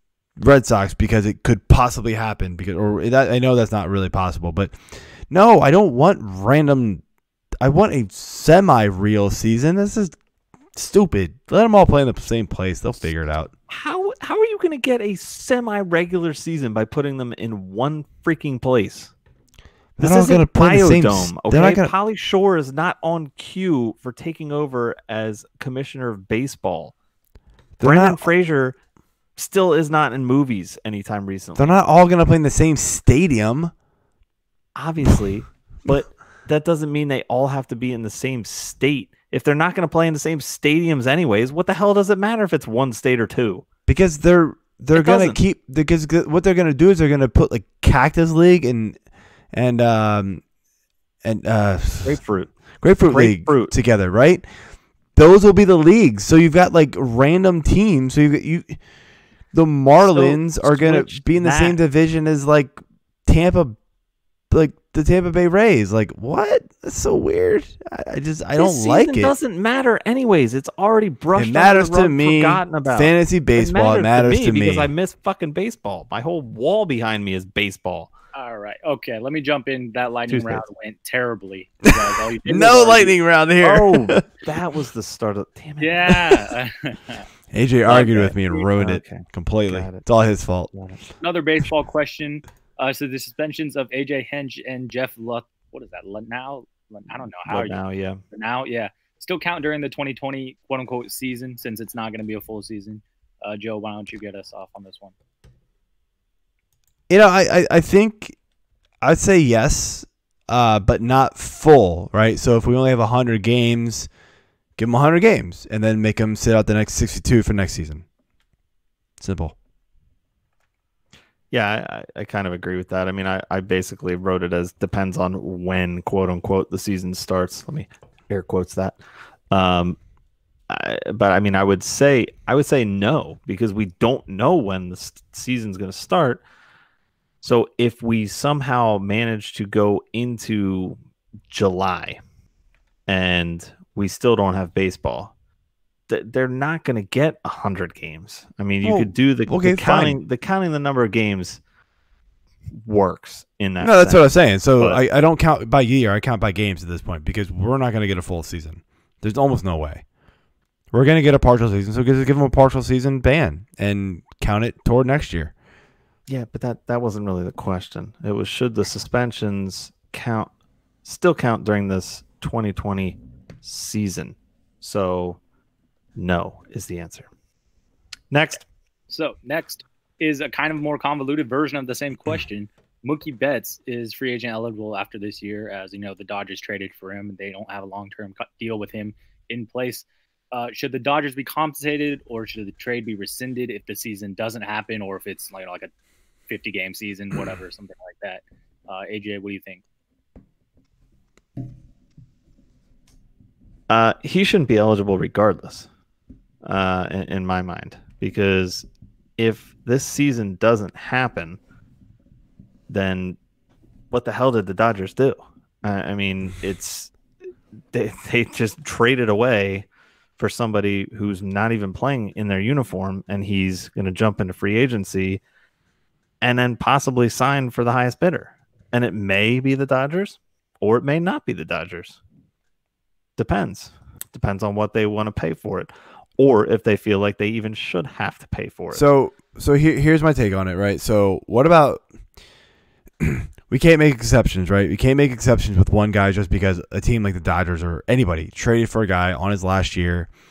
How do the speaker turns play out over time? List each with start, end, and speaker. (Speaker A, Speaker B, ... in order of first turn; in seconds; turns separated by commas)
Speaker A: 0.4-7.0, Speaker A: 7.6-10.2, Speaker A: 10.8-13.5, Speaker B: 13.7-19.1, Speaker A: 20.0-21.9, Speaker B: 20.0-26.9, Speaker A: 27.8-28.3, Speaker B: 27.8-28.8, Speaker B: 29.4-31.8, Speaker A: 31.6-33.7, Speaker B: 34.8-43.6, Speaker A: 43.9-49.0, Speaker B: 44.9-45.4, Speaker A: 49.5-50.4, Speaker A: 51.2-52.2, Speaker B: 52.0-52.5, Speaker A: 52.8-54.5, Speaker B: 53.0-53.8, Speaker A: 55.1-58.8, Speaker A: 59.5-63.8, Speaker B: 60.0-61.8, Speaker A: 64.5-69.3, Speaker B: 68.6-78.1, Speaker A: 71.3-74.9, Speaker C: 78.3-83.1, Speaker B: 80.3-80.6, Speaker A: 81.8-84.4, Speaker B: 83.6-86.2, Speaker C: 85.8-87.3, Speaker A: 87.5-90.7, Speaker B: 87.9-90.0, Speaker B: 90.7-91.0, Speaker C: 91.2-97.8, Speaker B: 97.5-98.2, Speaker C: 98.3-105.1, Speaker A: 107.1-108.4, Speaker A: 109.0-114.1, Speaker A: 114.8-118.0, Speaker A: 119.2-119.5, Speaker B: 121.5-129.0, Speaker B: 129.5-130.0, Speaker B: 130.7-136.4, Speaker B: 137.4-142.2, Speaker B: 143.1-145.3, Speaker B: 146.1-151.6, Speaker A: 148.8-150.2, Speaker B: 152.8-155.0, Speaker A: 153.8-160.1, Speaker A: 160.9-165.5, Speaker B: 166.3-170.5, Speaker B: 171.0-175.4, Speaker B: 176.2-177.3, Speaker B: 178.3-178.6, Speaker C: 179.1-195.9, Speaker C: 196.5-199.8, Speaker B: 203.9-205.9, Speaker B: 206.6-211.6, Speaker B: 212.9-213.4, Speaker B: 214.1-217.1, Speaker B: 217.9-219.9, Speaker B: 220.4-225.4, Speaker B: 226.4-232.2, Speaker B: 233.4-239.1, Speaker A: 238.9-242.1, Speaker A: 243.2-250.3